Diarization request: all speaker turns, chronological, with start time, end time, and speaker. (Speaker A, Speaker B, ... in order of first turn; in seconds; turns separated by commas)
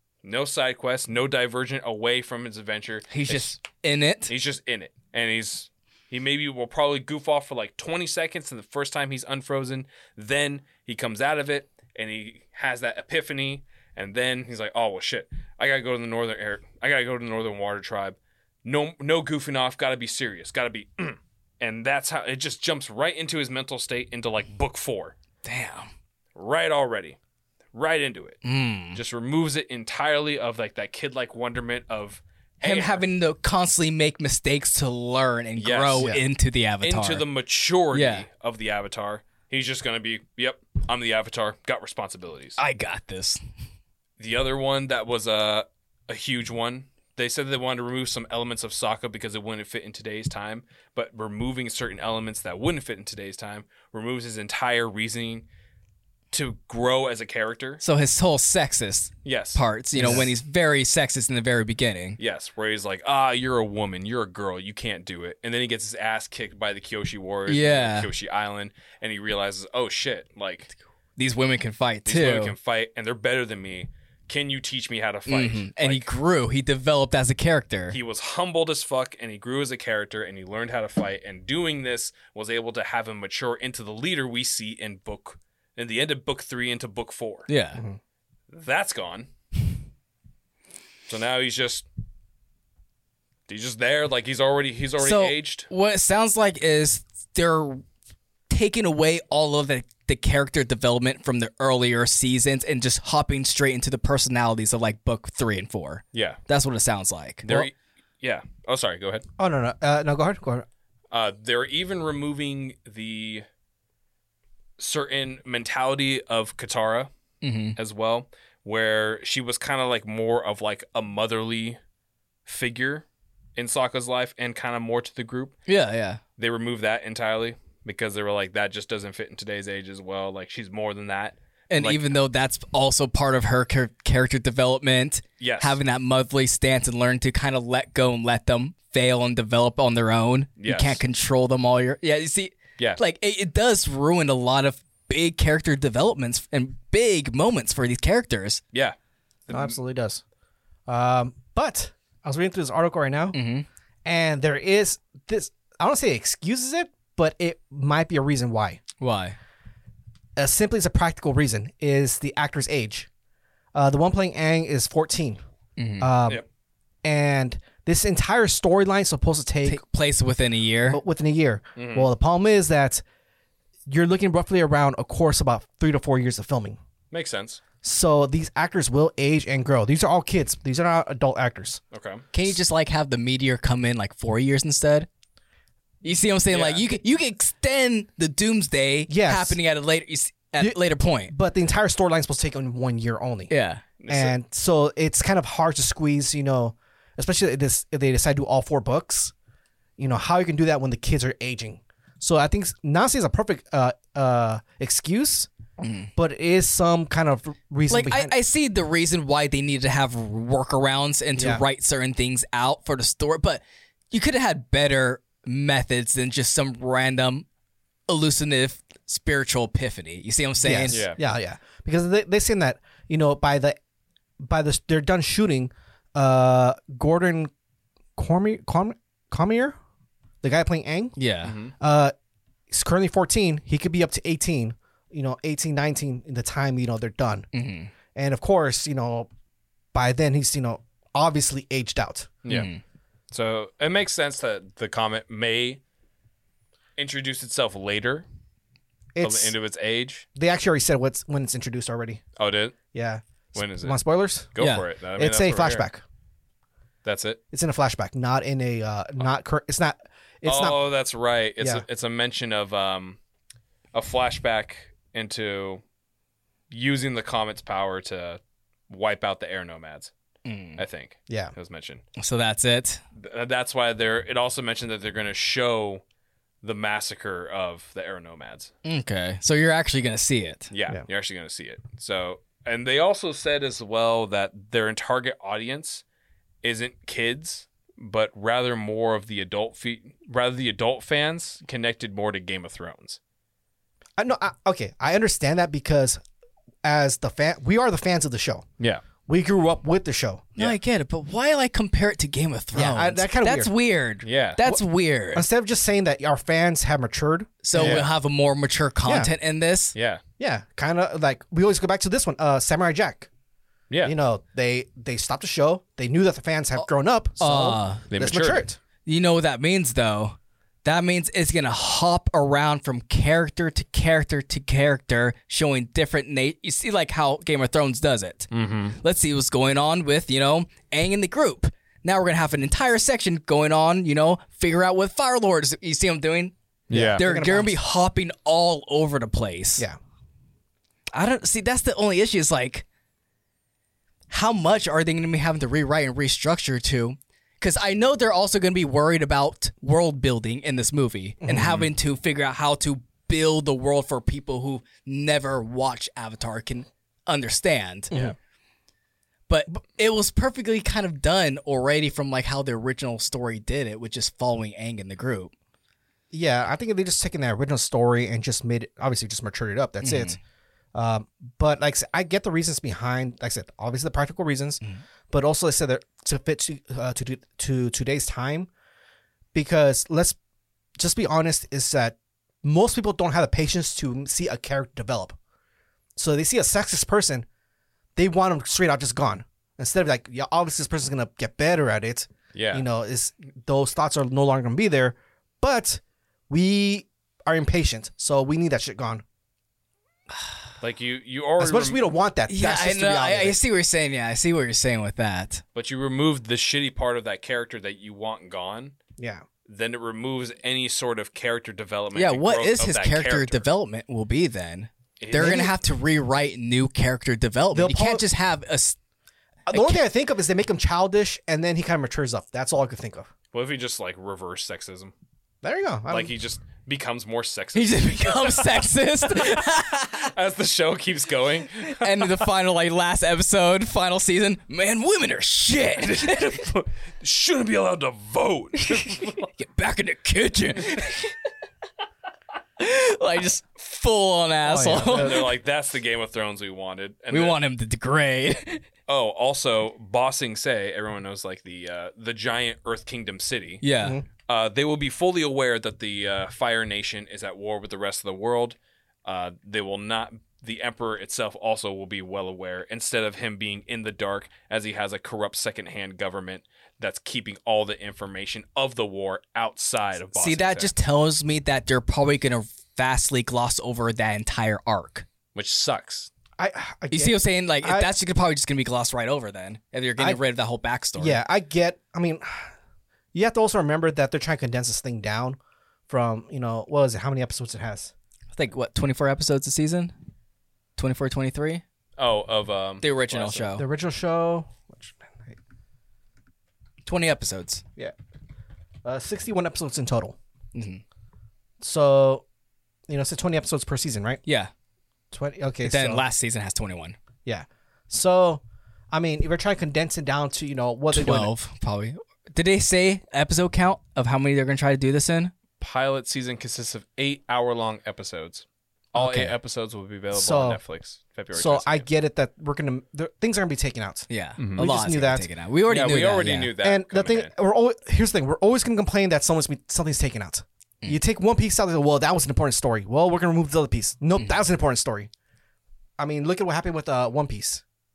Speaker A: 0.2-3.6, Speaker B: 3.1-4.3, Speaker A: 4.3-25.1, Speaker B: 25.4-25.9, Speaker A: 26.4-27.2, Speaker A: 27.7-28.4, Speaker B: 28.4-29.0, Speaker A: 28.9-33.0, Speaker B: 32.6-37.2, Speaker A: 35.6-36.1, Speaker C: 36.0-36.2, Speaker A: 36.8-42.6, Speaker B: 37.9-38.3, Speaker B: 42.6-43.4, Speaker A: 44.2-55.5, Speaker A: 56.3-57.8, Speaker B: 57.8-62.2, Speaker A: 59.2-59.6, Speaker C: 60.0-60.3, Speaker A: 62.2-70.7, Speaker B: 67.5-68.1, Speaker B: 71.2-72.5, Speaker A: 72.1-76.1, Speaker B: 75.3-78.0, Speaker A: 77.9-87.5, Speaker B: 87.5-87.8, Speaker A: 88.5-89.3, Speaker A: 91.1-91.9, Speaker A: 93.5-95.7, Speaker B: 95.0-97.8, Speaker B: 98.5-107.7, Speaker A: 106.1-106.4, Speaker A: 107.4-109.2, Speaker C: 109.4-110.7, Speaker A: 111.1-113.5, Speaker A: 114.8-117.1, Speaker B: 117.4-117.8, Speaker A: 117.8-121.8, Speaker A: 122.5-125.5, Speaker B: 125.7-126.2, Speaker A: 126.4-132.2, Speaker B: 131.7-148.6, Speaker A: 135.4-135.8, Speaker A: 140.6-141.0, Speaker A: 149.5-149.8, Speaker C: 149.5-150.2, Speaker C: 150.9-153.4, Speaker B: 153.3-153.7, Speaker C: 154.1-158.8, Speaker B: 159.0-159.4, Speaker C: 160.4-163.1, Speaker C: 163.7-165.4, Speaker B: 165.8-166.1, Speaker C: 166.0-166.4, Speaker C: 167.0-169.8, Speaker B: 169.7-171.0, Speaker C: 170.9-173.0, Speaker A: 171.8-172.1, Speaker C: 173.9-176.8, Speaker A: 177.1-177.6, Speaker C: 177.8-181.8, Speaker A: 181.9-182.3, Speaker B: 182.3-185.1, Speaker B: 186.0-191.3, Speaker A: 186.5-186.9, Speaker C: 189.1-189.6, Speaker C: 191.3-193.5, Speaker B: 193.5-193.8, Speaker A: 194.0-194.3, Speaker C: 194.1-199.3, Speaker C: 200.0-205.5, Speaker B: 205.8-206.1, Speaker C: 206.2-208.3, Speaker B: 207.9-217.5, Speaker C: 211.4-211.6, Speaker B: 218.1-221.1, Speaker C: 220.6-223.8, Speaker A: 220.9-221.2, Speaker C: 224.4-227.5, Speaker C: 228.2-229.8, Speaker C: 230.4-231.2, Speaker B: 231.2-231.6, Speaker A: 231.4-231.7, Speaker C: 231.8-232.1, Speaker C: 232.7-237.5, Speaker B: 237.5-237.9, Speaker C: 238.2-239.3, Speaker C: 239.9-242.4, Speaker A: 242.4-242.7, Speaker B: 242.5-242.8, Speaker A: 243.3-245.8, Speaker A: 247.0-248.3, Speaker C: 249.2-249.5, Speaker A: 249.2-250.3, Speaker C: 250.4-252.2, Speaker A: 252.4-252.8, Speaker C: 252.9-254.5, Speaker A: 253.6-254.0, Speaker A: 254.5-255.9, Speaker B: 254.6-254.8, Speaker C: 255.2-256.0, Speaker A: 257.1-257.4, Speaker C: 257.5-260.8, Speaker A: 260.4-263.2, Speaker A: 263.9-265.8, Speaker A: 266.7-270.1, Speaker B: 270.4-270.8, Speaker A: 270.8-272.0, Speaker C: 271.3-271.5, Speaker B: 272.2-273.0, Speaker A: 273.1-276.0, Speaker A: 276.6-278.7, Speaker B: 278.8-280.7, Speaker A: 280.7-286.0, Speaker A: 286.6-293.2, Speaker C: 294.2-296.2, Speaker C: 296.8-298.7, Speaker C: 299.3-300.5, Speaker B: 300.6-305.4, Speaker C: 302.7-303.7, Speaker A: 304.2-304.6, Speaker C: 305.3-308.1, Speaker B: 307.6-309.9, Speaker A: 307.8-308.1, Speaker C: 309.1-309.3, Speaker A: 309.9-310.2, Speaker C: 310.4-313.3, Speaker C: 314.0-318.8, Speaker B: 317.4-318.0, Speaker A: 318.1-318.7, Speaker B: 319.1-336.5, Speaker A: 328.5-329.0, Speaker A: 336.9-337.2, Speaker C: 336.9-337.8, Speaker B: 337.1-339.8, Speaker B: 341.1-342.9, Speaker B: 344.3-358.1, Speaker C: 351.4-351.9, Speaker B: 359.5-365.5, Speaker C: 366.3-370.4, Speaker B: 370.0-370.4, Speaker C: 370.9-378.7, Speaker C: 379.5-380.4, Speaker C: 381.0-385.4, Speaker C: 386.2-387.5, Speaker C: 388.2-399.2, Speaker A: 392.5-392.9, Speaker A: 400.8-402.1, Speaker C: 401.6-403.6, Speaker B: 402.5-405.6, Speaker A: 405.8-409.0, Speaker C: 409.2-409.4, Speaker A: 409.7-413.7, Speaker B: 412.1-419.0, Speaker A: 415.2-415.7, Speaker C: 415.3-415.7, Speaker C: 417.7-418.2, Speaker C: 419.7-423.3, Speaker B: 419.7-420.0, Speaker A: 423.5-425.1, Speaker C: 425.6-426.3, Speaker A: 426.1-432.5, Speaker B: 427.8-430.3, Speaker B: 431.9-436.7, Speaker A: 436.2-439.5, Speaker B: 438.9-441.4, Speaker B: 442.8-445.5, Speaker C: 444.6-445.5, Speaker A: 445.0-447.6, Speaker B: 447.3-448.8, Speaker A: 449.1-453.8, Speaker B: 453.8-454.2, Speaker A: 454.5-470.9, Speaker B: 470.4-475.3, Speaker A: 475.6-476.3, Speaker C: 476.6-478.2, Speaker B: 477.1-481.4, Speaker C: 481.2-482.7, Speaker C: 483.3-485.6, Speaker C: 486.1-488.1, Speaker B: 488.5-490.1, Speaker B: 491.0-491.8, Speaker A: 492.2-493.7, Speaker B: 493.0-493.9, Speaker C: 493.8-495.6, Speaker B: 497.1-497.8, Speaker C: 499.1-500.4, Speaker B: 500.7-501.0, Speaker C: 501.8-502.4, Speaker C: 503.1-504.4, Speaker B: 504.5-504.7, Speaker C: 505.3-506.2, Speaker B: 505.8-507.2, Speaker C: 507.5-511.5, Speaker B: 511.1-515.5, Speaker A: 515.8-522.1, Speaker B: 519.1-519.5, Speaker C: 520.3-520.8, Speaker C: 521.5-525.5, Speaker B: 524.3-526.7, Speaker A: 524.6-524.9, Speaker A: 525.9-527.5, Speaker C: 526.8-535.3, Speaker C: 536.2-537.8